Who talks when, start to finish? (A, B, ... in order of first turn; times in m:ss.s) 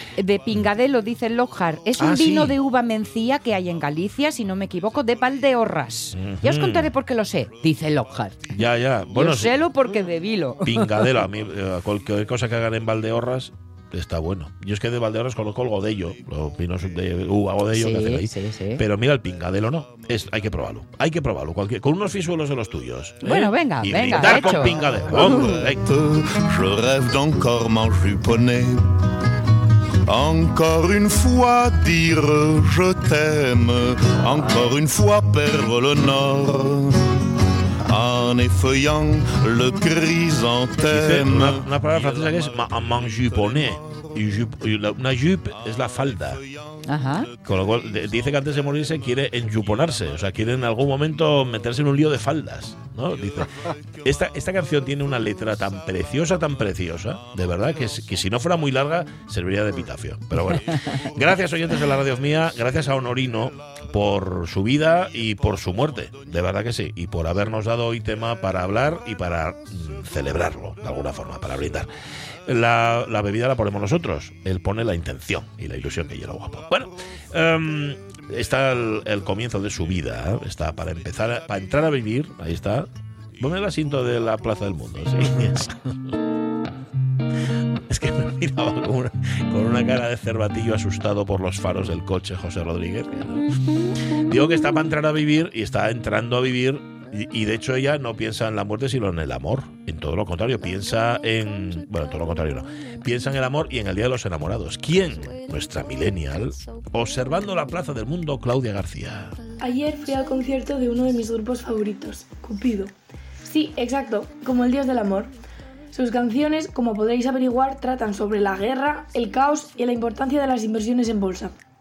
0:00.2-0:08.6 A
0:02.0-0:02.6 B
0:06.1-0:06.9 B
0:08.5-0:09.7 B
0:09.1-0:11.2 A
0:10.6-0:25.8 B
0:17.7-0:18.8 A
0:23.2-0:25.5 A
0:25.2-0:28.9 C
0:30.1-0:37.3 C
0:37.8-0:44.1 C
0:40.9-0:46.4 B
0:46.4-0:46.6 C
0:46.9-0:47.3 A
0:47.4-1:11.9 B
1:12.5-1:26.2 B
1:27.9-1:33.5 B
1:34.1-1:49.4 B
1:49.6-1:52.9 D
1:53.4-1:55.3 D
1:55.9-2:01.5 D